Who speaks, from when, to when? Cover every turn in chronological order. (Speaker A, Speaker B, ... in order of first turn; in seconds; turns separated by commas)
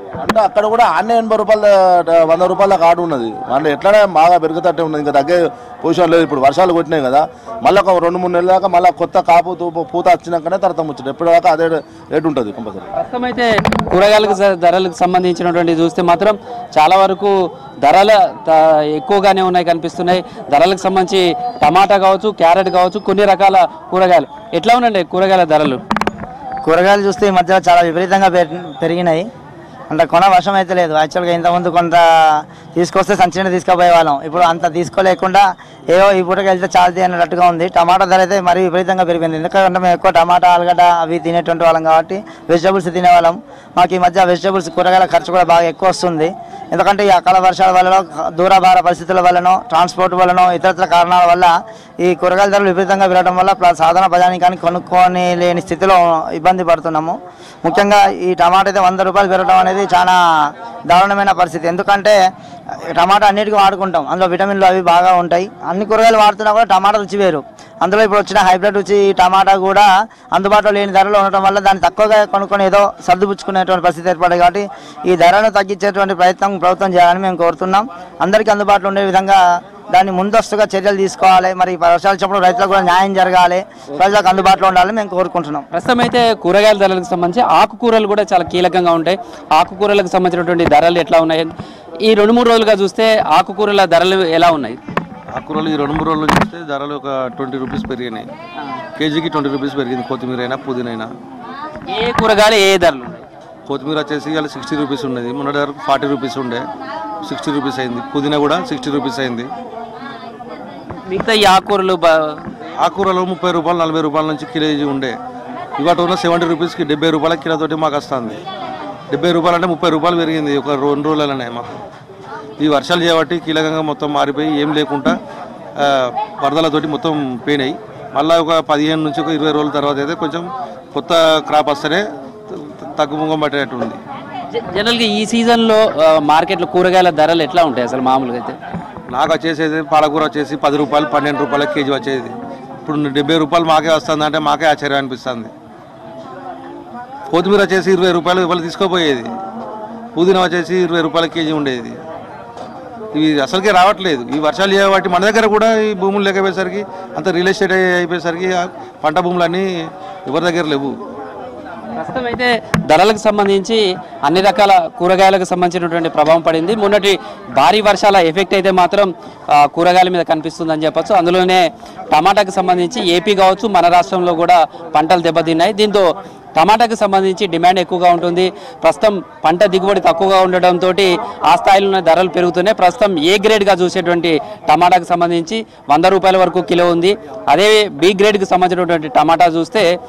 Speaker A: 0.2-12.9, Speaker B: 12.9-25.8, Speaker C: 26.6-29.2, Speaker C: 29.9-60.2, Speaker C: 60.9-62.1, Speaker C: 62.9-79.4, Speaker C: 79.9-85.7, Speaker B: 85.7-94.8, Speaker D: 95.3-98.3, Speaker D: 99.0-101.1, Speaker B: 101.9-103.2, Speaker D: 103.7-106.6, Speaker D: 107.2-109.5, Speaker B: 111.0-112.4, Speaker D: 112.8-115.1, Speaker D: 115.8-118.4, Speaker D: 119.1-121.7, Speaker D: 122.6-125.1, Speaker D: 125.8-134.0, Speaker B: 134.5-138.6, Speaker D: 139.1-142.3, Speaker D: 142.8-145.5, Speaker D: 147.3-149.3, Speaker D: 150.2-151.9, Speaker D: 153.1-159.7, Speaker D: 160.2-160.9, Speaker B: 161.9-189.9